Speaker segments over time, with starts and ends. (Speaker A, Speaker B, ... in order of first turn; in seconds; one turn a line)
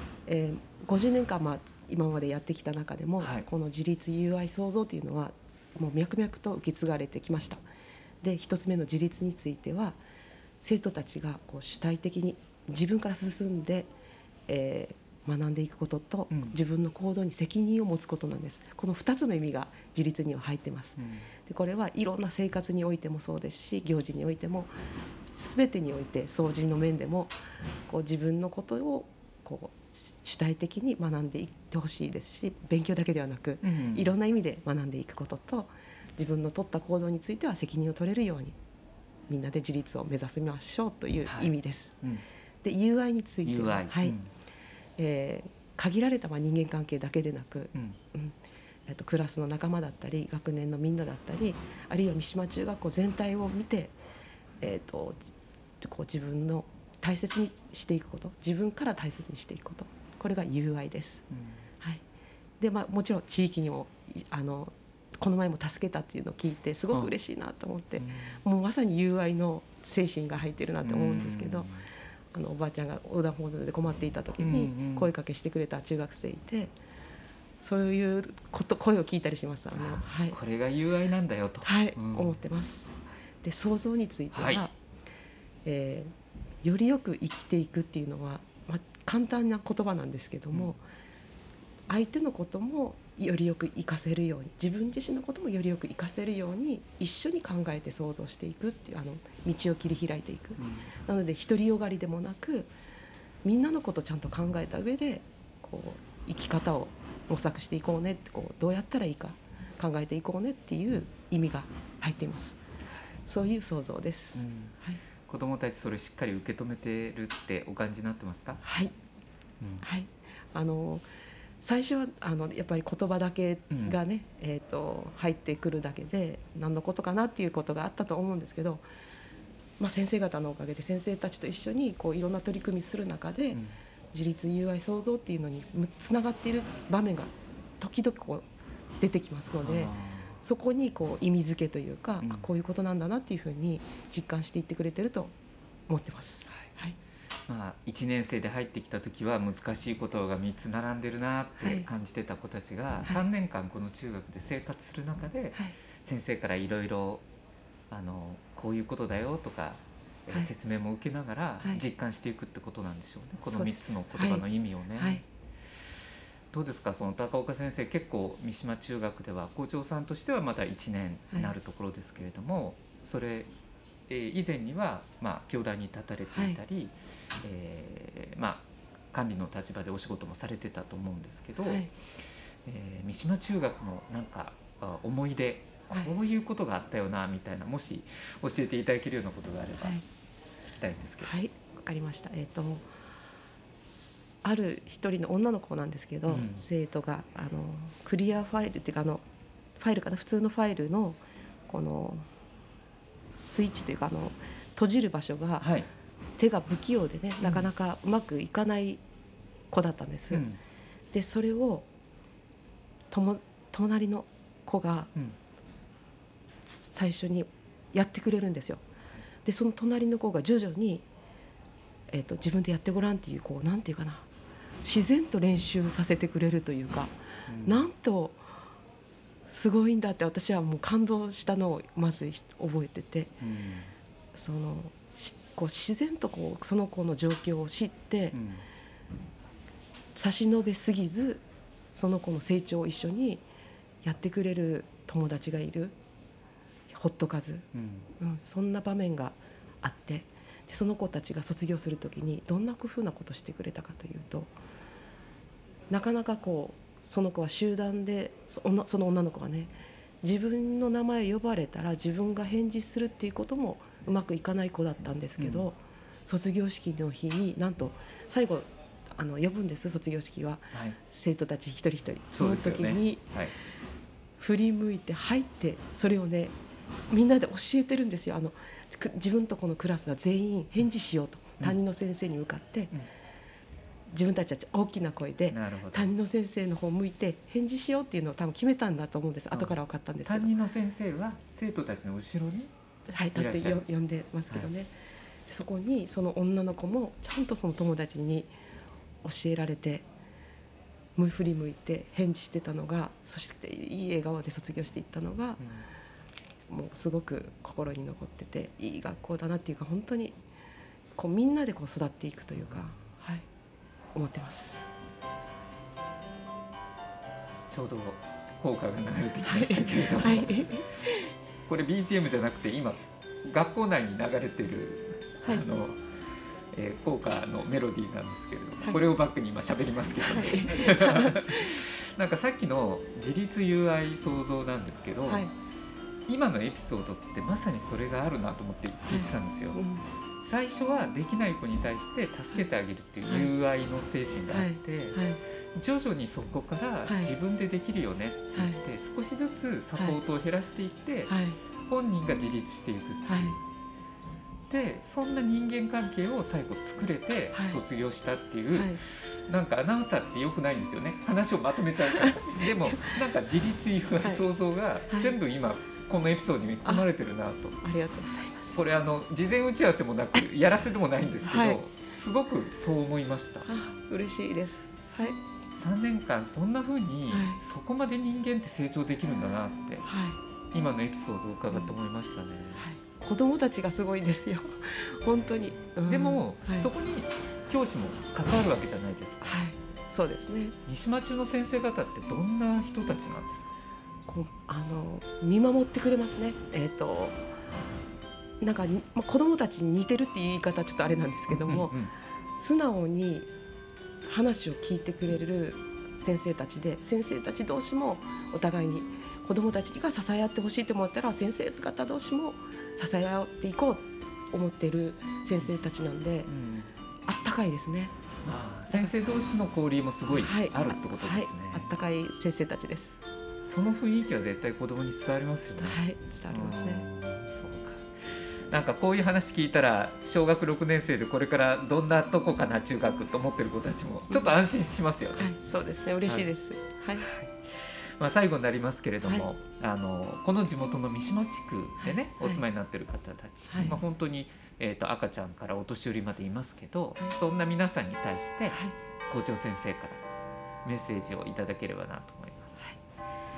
Speaker A: 0.2-7.6
Speaker B: 3.2-3.4
Speaker A: 8.2-10.0
Speaker A: 10.6-13.9
Speaker A: 14.5-24.7
Speaker B: 16.3-16.6
Speaker B: 20.9-21.3
Speaker A: 25.2-27.3
Speaker A: 27.9-38.5
Speaker B: 33.6-34.1
Speaker A: 39.3-41.9
Speaker B: 41.2-41.5
Speaker A: 42.6-44.2
Speaker B: 43.4-44.3
Speaker A: 45.0-54.0
Speaker A: 54.6-61.2
Speaker B: 61.3-61.6
Speaker A: 62.6-71.7
Speaker B: 68.0-68.4
Speaker B: 70.8-71.8
Speaker A: 72.3-76.7
Speaker B: 74.4-75.1
Speaker A: 77.6-80.4
Speaker B: 79.7-82.3
Speaker A: 81.6-84.7
Speaker B: 84.3-84.7
Speaker A: 85.6-86.1
Speaker A: 86.6-90.8
Speaker A: 91.9-102.7
Speaker B: 100.6-100.9
Speaker A: 103.4-112.6
Speaker A: 113.3-115.0
Speaker B: 114.3-118.6
Speaker A: 118.6-118.9
Speaker B: 119.6-119.8
Speaker A: 119.8-121.0
Speaker A: 121.6-128.8
Speaker B: 123.7-124.0
Speaker A: 129.8-138.4
Speaker B: 133.5-133.8
Speaker A: 139.0-145.3
Speaker B: 139.6-140.4
Speaker B: 142.2-142.5
Speaker A: 145.9-147.0
Speaker B: 147.5-157.2
Speaker A: 151.6-151.9
Speaker B: 157.9-165.2
Speaker A: 163.4-164.4
Speaker A: 165.0-165.2
Speaker B: 166.5-173.5
Speaker B: 174.1-181.8
Speaker A: 176.3-176.6
Speaker A: 181.6-181.9
Speaker B: 182.7-190.0
Speaker B: 190.6-191.4
Speaker A: 191.2-192.9
Speaker A: 194.4-199.2
Speaker B: 196.3-196.6
Speaker A: 199.8-202.3
Speaker A: 203.4-205.7
Speaker B: 205.6-205.9
Speaker A: 206.4-209.0
Speaker B: 207.4-207.7
Speaker A: 209.7-210.5
Speaker B: 210.3-210.6
Speaker A: 211.1-211.9
Speaker A: 213.1-215.1
Speaker A: 216.7-218.8
Speaker A: 219.4-221.0
Speaker A: 222.1-224.3
Speaker A: 224.8-228.4
Speaker B: 227.5-227.9
Speaker A: 229.5-233.4
Speaker B: 233.4-233.9
Speaker A: 234.3-238.4
Speaker B: 238.3-238.6
Speaker A: 240.1-243.4
Speaker A: 244.0-245.9
Speaker A: 246.9-247.7
Speaker B: 247.7-248.1
Speaker A: 248.2-254.5
Speaker A: 255.9-273.3
Speaker B: 265.4-265.6
Speaker B: 270.7-271.0
Speaker B: 272.3-273.5
Speaker A: 274.4-276.5
Speaker A: 277.1-282.9
Speaker A: 284.1-290.5
Speaker B: 285.5-286.1
Speaker B: 290.2-293.8
Speaker A: 293.1-294.9
Speaker A: 295.5-298.5
Speaker A: 299.2-300.0
Speaker A: 301.1-305.6
Speaker B: 305.6-305.8
Speaker A: 306.7-310.4
Speaker A: 311.1-313.4
Speaker A: 314.1-314.9
Speaker B: 317.7-320.7
Speaker A: 319.4-321.3
Speaker B: 321.7-326.0
Speaker B: 326.7-335.4
Speaker A: 330.2-331.8
Speaker A: 335.3-335.5
Speaker B: 336.3-339.8
Speaker A: 339.1-340.1
Speaker B: 340.4-353.6
Speaker A: 343.2-343.5
Speaker A: 344.5-345.4
Speaker A: 347.1-347.3
Speaker A: 348.5-348.8
Speaker A: 351.3-351.6
Speaker A: 353.2-353.6
Speaker B: 354.7-367.8
Speaker A: 357.5-357.8
Speaker A: 358.7-359.0
Speaker A: 362.0-363.2
Speaker A: 365.1-365.3
Speaker A: 367.8-368.8
Speaker B: 368.7-373.7
Speaker A: 371.4-371.8
Speaker A: 373.6-375.4
Speaker B: 375.7-380.1
Speaker A: 377.3-377.6
Speaker A: 380.0-380.4
Speaker B: 380.7-382.9
Speaker A: 382.8-386.9
Speaker B: 386.1-389.6
Speaker A: 389.4-390.8
Speaker B: 390.9-393.7
Speaker A: 394.3-397.4
Speaker A: 398.6-401.9
Speaker B: 401.5-402.1
Speaker A: 402.6-403.5
Speaker A: 404.2-416.5
Speaker B: 416.5-416.9
Speaker A: 417.3-418.1
Speaker B: 418.4-421.9
Speaker A: 420.3-423.2
Speaker B: 423.6-428.1
Speaker A: 425.7-427.0
Speaker B: 428.7-435.5
Speaker A: 434.3-434.6
Speaker A: 435.4-437.3
Speaker B: 437.2-450.2
Speaker A: 442.0-442.6
Speaker A: 443.7-444.0
Speaker B: 450.8-452.8